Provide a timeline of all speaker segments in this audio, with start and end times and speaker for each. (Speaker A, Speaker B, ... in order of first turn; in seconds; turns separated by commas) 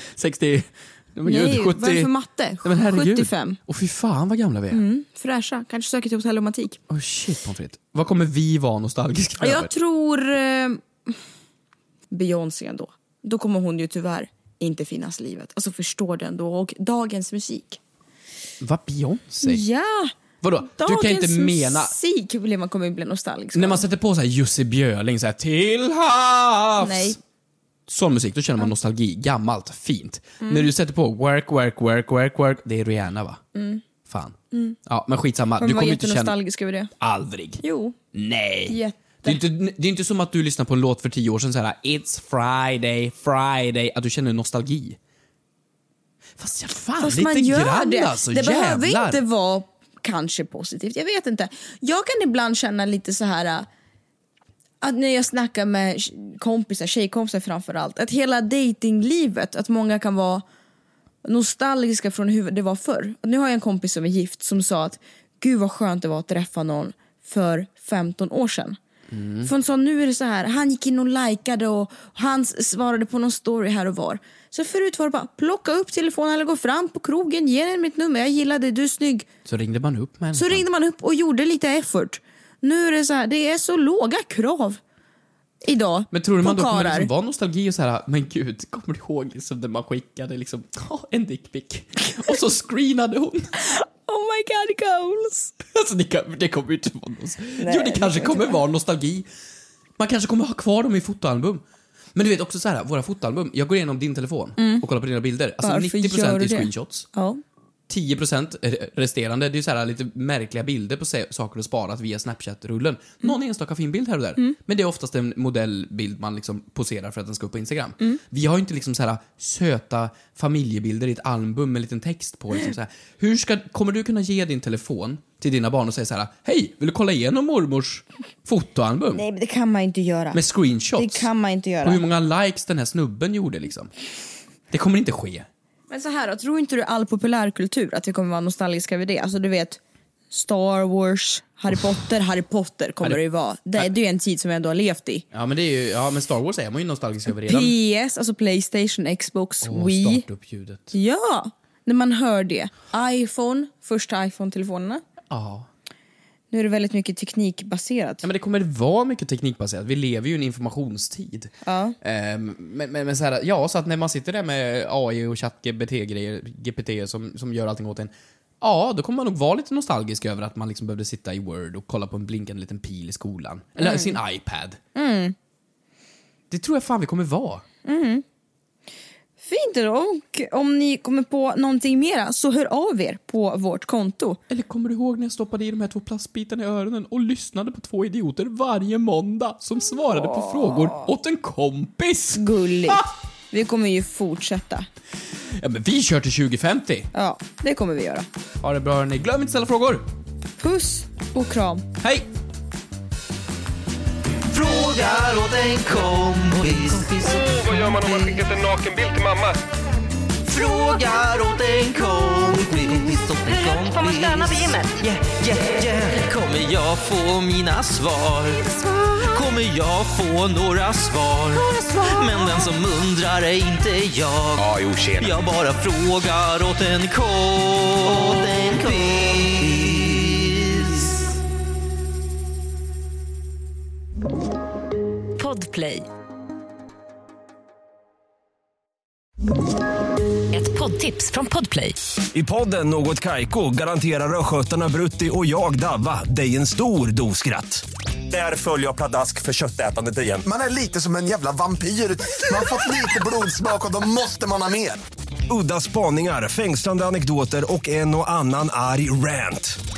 Speaker A: 0.1-2.1, Speaker B: 1.2-3.6, Speaker A: 2.6-4.8, Speaker B: 4.7-6.8, Speaker A: 6.9-9.7, Speaker B: 9.4-11.2, Speaker B: 12.1-17.8, Speaker A: 18.6-19.6, Speaker B: 19.4-23.8, Speaker A: 20.4-21.9, Speaker A: 23.5-27.2, Speaker B: 26.8-27.2, Speaker A: 27.9-33.4, Speaker B: 30.4-30.7, Speaker B: 33.5-33.8, Speaker A: 34.0-36.4, Speaker B: 34.5-34.8, Speaker B: 35.6-36.9, Speaker A: 37.0-37.6, Speaker B: 37.6-38.0, Speaker A: 38.1-45.0, Speaker B: 38.7-39.4, Speaker A: 46.4-49.2, Speaker B: 47.0-53.7, Speaker B: 54.8-60.4, Speaker B: 61.2-68.8, Speaker A: 69.1-69.5, Speaker B: 69.4-79.3, Speaker A: 79.4-80.6, Speaker B: 80.3-84.8, Speaker B: 85.6-87.1, Speaker A: 86.1-93.5, Speaker B: 93.6-95.5, Speaker A: 95.7-99.3, Speaker B: 97.6-98.6, Speaker A: 100.0-101.6, Speaker A: 102.1-107.1, Speaker B: 104.6-104.8, Speaker B: 105.6-107.4, Speaker A: 107.9-129.2, Speaker B: 129.1-130.4, Speaker A: 130.3-131.3, Speaker B: 130.9-132.0, Speaker A: 131.8-133.9, Speaker A: 134.7-135.5, Speaker B: 135.9-139.8, Speaker B: 140.3-145.2, Speaker A: 145.3-147.7, Speaker B: 147.4-150.2, Speaker A: 149.6-150.9, Speaker B: 150.9-155.0, Speaker A: 155.3-155.7, Speaker B: 156.5-158.2, Speaker A: 158.2-174.8, Speaker B: 161.6-161.9, Speaker B: 173.8-174.2, Speaker B: 174.9-175.3, Speaker A: 176.5-177.6, Speaker B: 177.8-178.2, Speaker B: 179.4-184.4, Speaker A: 184.5-193.1, Speaker B: 190.2-191.1, Speaker B: 192.3-194.9, Speaker A: 195.5-197.1, Speaker B: 197.1-198.3, Speaker A: 198.6-200.1, Speaker B: 200.6-201.8, Speaker A: 202.0-202.3, Speaker C: 204.5-207.3, Speaker D: 207.2-209.6, Speaker C: 210.4-231.2, Speaker E: 235.4-236.0, Speaker E: 240.5-242.0, Speaker F: 242.3-250.4, Speaker G: 250.4-255.0, Speaker F: 255.5-259.8